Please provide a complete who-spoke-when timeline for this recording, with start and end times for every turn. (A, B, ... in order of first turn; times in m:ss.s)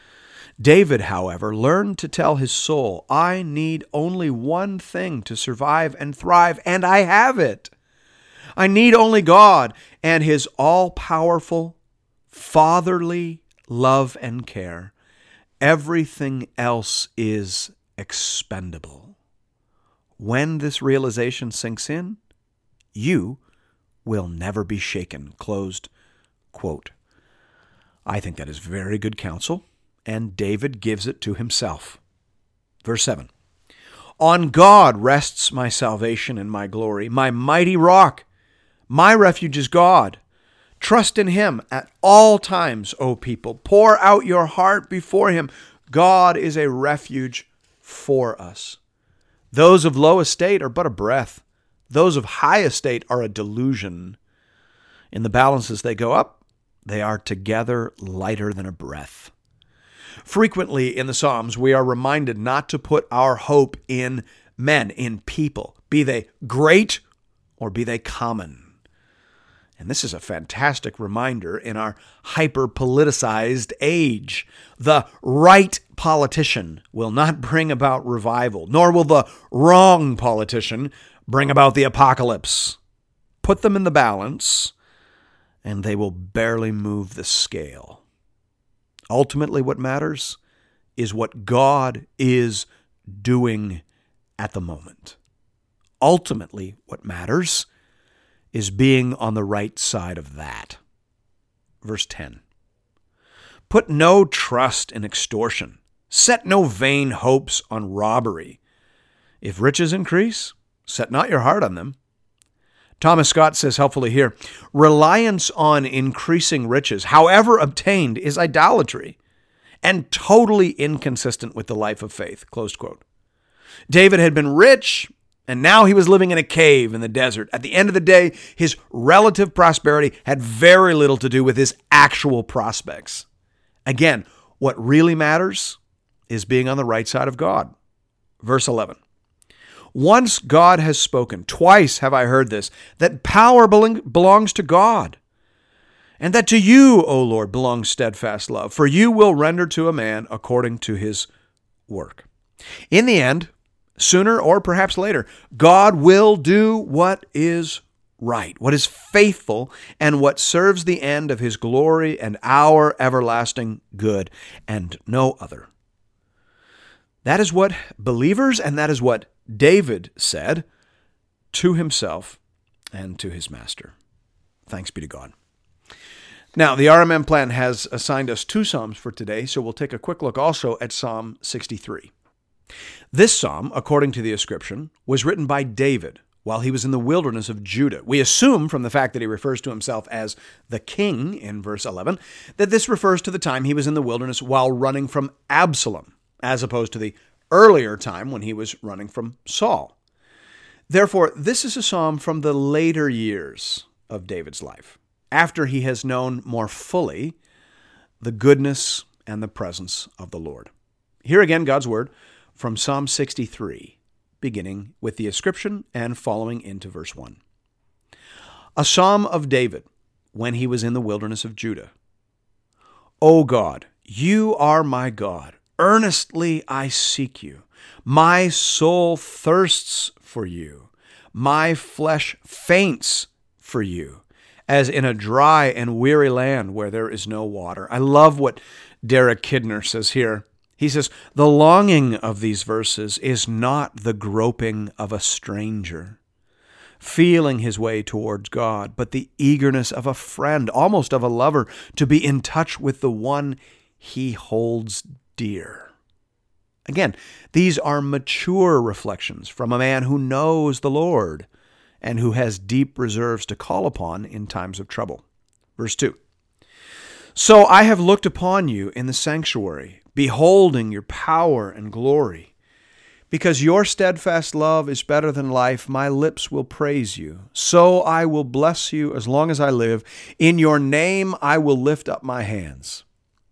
0:00.6-0:07.7 A
0:08.6-0:11.8 A
0:12.3-0:14.9 A
0:15.6-0:19.1 A
0:20.2-0:22.2 A
0:22.9-0:23.4 A
0:24.0-0:25.9 A
0:26.5-0:26.9 A
0:28.0-0:32.0 A
0:32.8-0:33.3 A
0:34.2-0:38.2 A
0:38.9-0:40.2 A
0:40.8-0:48.8 A
0:49.5-0:54.2 A
0:55.1-0:59.3 A
1:00.2-1:07.0 A
1:07.6-1:08.7 A
1:09.8-1:22.8 A
1:23.4-1:24.7 A
1:25.6-1:28.0 A
1:29.1-1:30.4 A
1:31.0-1:33.8 A
1:34.4-1:35.2 A
1:36.0-1:37.7 A
1:38.5-1:40.8 A
1:41.8-1:42.4 A
1:43.7-1:48.6 A
1:49.4-1:52.0 A
1:53.0-1:59.2 A
1:59.8-2:03.0 A
2:03.9-2:13.2 A
2:13.8-2:17.7 A
2:18.4-2:19.0 A
2:19.9-2:25.2 A
2:26.2-2:31.3 A
2:31.9-2:32.3 A
2:32.9-2:45.7 A
2:47.2-2:50.6 A
2:51.5-2:52.4 A
2:52.9-2:53.9 A
2:54.7-2:55.3 A
2:56.5-3:02.1 A
3:03.1-3:19.9 A
3:20.9-3:27.4 A
3:28.2-3:30.7 A
3:31.2-3:37.4 A
3:38.8-3:41.9 A
3:43.2-4:06.2 A
4:07.0-4:15.9 A
4:16.9-4:21.5 A
4:22.0-4:25.2 A
4:25.8-4:26.2 A
4:27.3-4:32.5 A
4:33.3-4:43.0 A